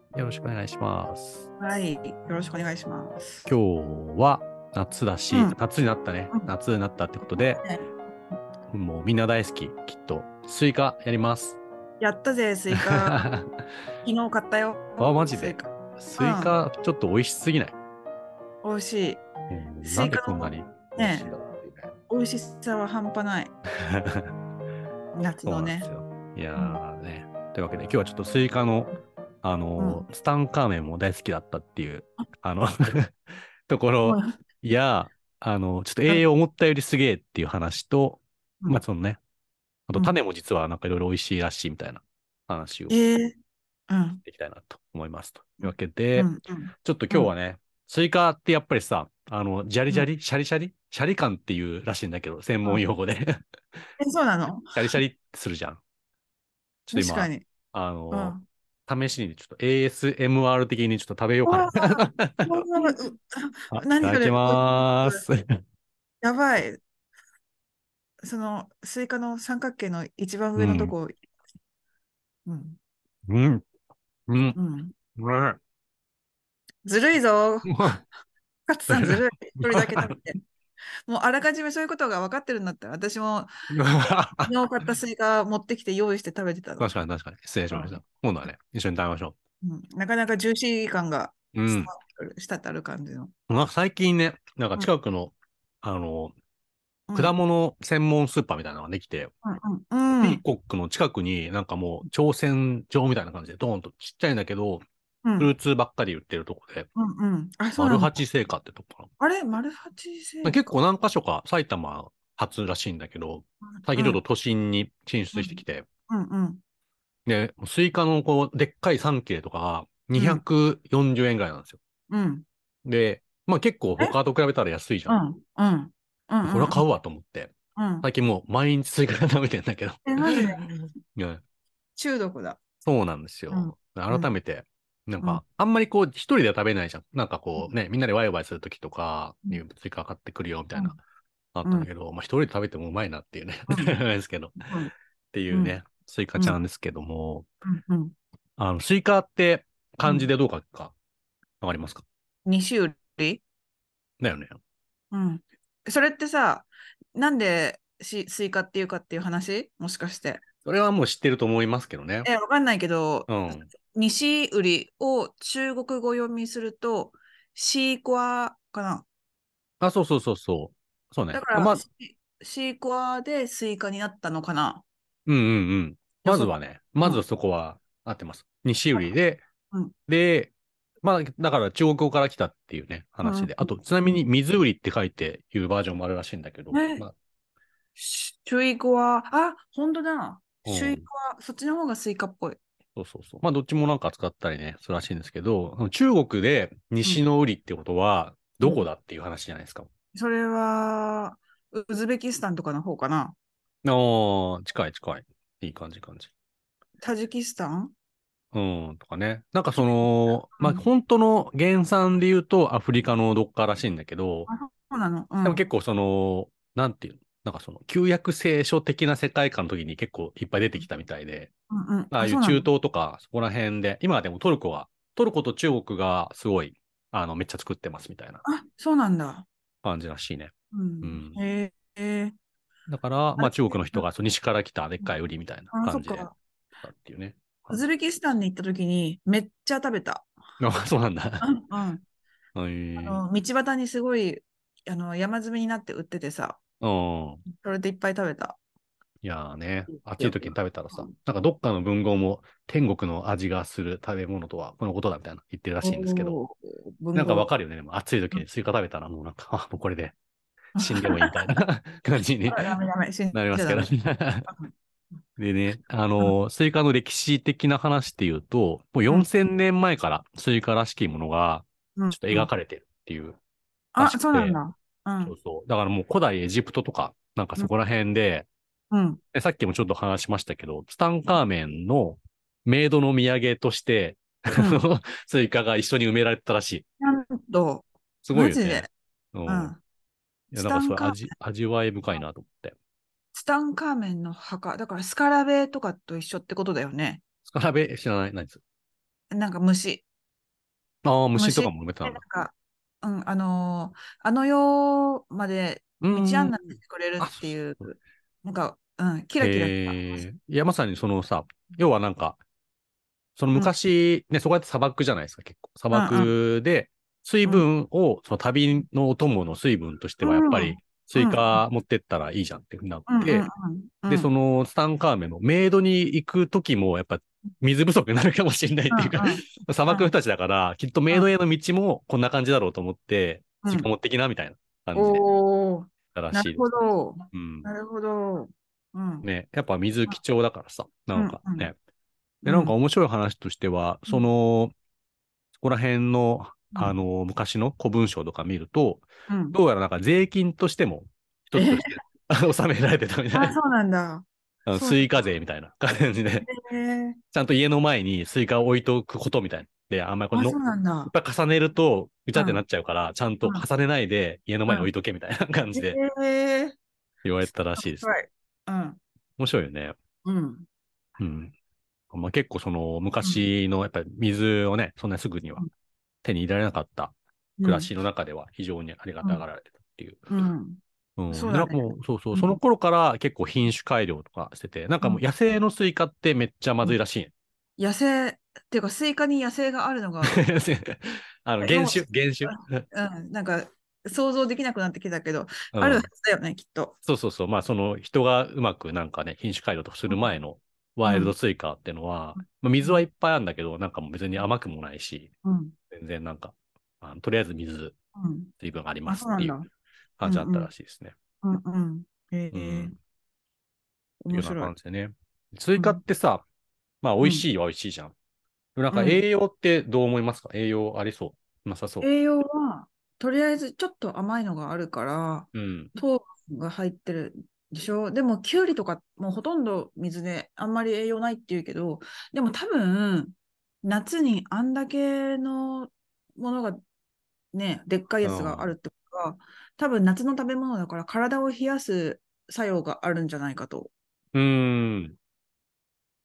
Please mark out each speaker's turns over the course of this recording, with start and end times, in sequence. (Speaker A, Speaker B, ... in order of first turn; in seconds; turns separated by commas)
Speaker A: 0.1-1.5, Speaker B: 1.6-3.5, Speaker A: 3.5-7.6, Speaker B: 7.6-7.9, Speaker A: 8.7-11.6, Speaker B: 12.0-13.3, Speaker A: 12.8-13.6, Speaker B: 14.0-16.5, Speaker A: 15.0-17.8, Speaker B: 18.6-19.2, Speaker A: 19.5-21.9, Speaker B: 19.8-21.3, Speaker B: 22.1-23.5, Speaker A: 23.9-24.3, Speaker B: 25.1-25.9, Speaker A: 25.5-33.1, Speaker B: 26.6-26.8, Speaker B: 29.8-30.1, Speaker A: 33.7-39.2, Speaker B: 34.0-34.4, Speaker A: 39.9-43.0, Speaker B: 42.9-43.4, Speaker B: 43.9-44.2, Speaker A: 44.2-53.4, Speaker B: 45.6-47.3, Speaker B: 54.0-54.7, Speaker A: 54.7-55.8, Speaker A: 56.9-58.4, Speaker B: 56.9-57.5, Speaker B: 58.1-58.4, Speaker A: 58.9-62.7, Speaker B: 61.5-65.2, Speaker A: 63.7-65.6, Speaker B: 66.2-66.8, Speaker B: 68.2-71.1, Speaker A: 70.6-70.9, Speaker B: 72.5-72.8, Speaker A: 73.3-73.6, Speaker A: 74.3-74.6, Speaker B: 74.6-75.0, Speaker A: 75.2-75.6, Speaker B: 76.8-77.8, Speaker A: 77.7-78.0, Speaker B: 78.7-80.4, Speaker A: 78.9-80.2, Speaker B: 81.1-83.5, Speaker A: 83.7-84.5, Speaker B: 84.4-86.9, Speaker A: 86.8-89.4, Speaker B: 87.7-88.0, Speaker B: 89.6-93.3, Speaker A: 91.5-91.9, Speaker A: 93.5-96.3, Speaker B: 97.1-97.3, Speaker A: 97.2-99.3, Speaker B: 99.4-100.4, Speaker A: 100.1-104.8, Speaker B: 105.2-105.5, Speaker A: 105.4-106.9, Speaker B: 107.0-108.1, Speaker A: 107.8-109.1, Speaker B: 109.2-110.7, Speaker A: 110.4-115.8, Speaker B: 113.7-114.2, Speaker B: 115.3-116.6, Speaker A: 117.3-121.8, Speaker B: 120.2-120.4, Speaker B: 122.1-122.5, Speaker A: 122.8-125.2, Speaker B: 125.1-126.8, Speaker A: 126.4-131.4, Speaker B: 127.8-128.1, Speaker B: 130.1-130.8, Speaker B: 132.0-132.6, Speaker A: 132.8-141.0, Speaker B: 133.5-134.3, Speaker A: 141.6-144.7, Speaker B: 143.7-144.0, Speaker A: 145.3-147.5, Speaker B: 145.5-145.8, Speaker B: 147.7-148.1, Speaker A: 148.6-150.9, Speaker B: 150.0-150.3, Speaker A: 151.6-152.1, Speaker B: 152.5-153.4, Speaker A: 154.2-154.6, Speaker B: 155.1-160.4, Speaker A: 160.7-162.3, Speaker B: 162.2-169.1, Speaker A: 163.3-163.7, Speaker A: 169.8-171.8, Speaker B: 171.3-174.8, Speaker A: 175.3-179.4, Speaker B: 176.2-177.2, Speaker A: 180.1-180.5, Speaker A: 181.0-187.1, Speaker B: 183.2-184.2, Speaker B: 186.7-187.1, Speaker B: 188.0-192.6, Speaker A: 190.7-191.1, Speaker A: 193.0-199.9, Speaker B: 200.1-203.3, Speaker A: 203.8-206.3, Speaker B: 207.0-207.9, Speaker A: 208.5-214.5, Speaker B: 209.8-210.8, Speaker B: 214.5-215.6, Speaker A: 215.4-221.5, Speaker B: 221.7-222.7, Speaker A: 222.1-228.4, Speaker B: 228.4-229.5, Speaker A: 229.8-231.4, Speaker B: 230.7-232.3, Speaker A: 232.9-236.3, Speaker B: 233.4-234.1, Speaker B: 235.7-236.3, Speaker A: 236.8-237.8, Speaker B: 237.7-240.3, Speaker A: 240.6-241.5, Speaker B: 241.4-242.0, Speaker A: 242.6-243.2, Speaker B: 243.0-246.6, Speaker A: 246.8-247.4, Speaker B: 247.5-248.6, Speaker A: 249.2-256.4, Speaker B: 250.2-251.1, Speaker B: 255.8-257.5, Speaker A: 257.1-260.1, Speaker A: 260.8-262.8, Speaker B: 260.8-261.4, Speaker B: 262.5-263.9, Speaker A: 263.3-264.5, Speaker B: 264.5-264.7, Speaker A: 265.4-273.4, Speaker B: 272.0-272.5, Speaker B: 273.9-275.3, Speaker A: 274.0-274.6, Speaker A: 275.2-278.5, Speaker B: 278.9-279.2, Speaker A: 279.3-286.9, Speaker B: 284.6-284.8, Speaker B: 287.0-288.9, Speaker A: 288.2-289.7, Speaker B: 289.5-289.8, Speaker A: 290.5-292.8, Speaker B: 290.6-291.3, Speaker B: 293.3-297.2, Speaker A: 297.4-298.6, Speaker B: 299.3-300.0, Speaker A: 301.0-302.2, Speaker B: 301.4-310.2, Speaker A: 306.0-306.6, Speaker A: 307.2-307.9, Speaker A: 309.4-312.4, Speaker A: 313.4-323.5, Speaker B: 315.9-316.3, Speaker B: 320.2-321.6, Speaker B: 323.1-324.3, Speaker A: 324.1-335.2, Speaker B: 328.9-330.1, Speaker B: 334.9-339.3, Speaker A: 336.1-336.7, Speaker A: 337.3-337.7, Speaker A: 339.2-341.8, Speaker B: 341.1-341.7, Speaker B: 342.4-342.8, Speaker A: 342.4-344.7, Speaker A: 345.6-353.6, Speaker B: 346.7-347.0, Speaker B: 349.3-349.6, Speaker B: 351.6-352.0, Speaker B: 353.3-355.1, Speaker A: 354.7-356.5, Speaker B: 356.4-357.2, Speaker A: 357.3-366.0, Speaker B: 360.3-361.1, Speaker B: 362.3-362.6, Speaker B: 365.8-366.8, Speaker A: 367.2-368.1, Speaker B: 367.8-369.0, Speaker A: 369.4-370.0, Speaker B: 370.2-370.7, Speaker A: 371.2-371.5, Speaker A: 372.1-375.6, Speaker A: 376.2-380.4, Speaker B: 377.6-377.9, Speaker B: 380.3-382.6, Speaker A: 381.2-387.3, Speaker B: 387.8-390.4, Speaker A: 390.2-392.9, Speaker B: 391.6-396.9, Speaker A: 395.7-396.1, Speaker A: 397.1-405.3, Speaker B: 400.1-400.3, Speaker B: 401.1-401.3, Speaker B: 402.4-403.0, Speaker B: 405.4-405.7, Speaker A: 405.9-407.9, Speaker B: 408.2-408.5, Speaker A: 408.6-409.6, Speaker B: 409.1-409.7, Speaker A: 410.2-411.1, Speaker B: 410.2-410.7, Speaker B: 411.4-412.9, Speaker A: 412.5-412.9, Speaker B: 414.2-414.7, Speaker A: 414.3-416.4, Speaker B: 415.8-416.0, Speaker A: 417.0-418.1, Speaker B: 417.2-417.4, Speaker A: 418.8-422.1, Speaker B: 418.9-419.2, Speaker B: 422.0-436.8, Speaker A: 425.5-425.9, Speaker B: 437.5-443.9, Speaker A: 438.2-438.7, Speaker A: 444.3-445.2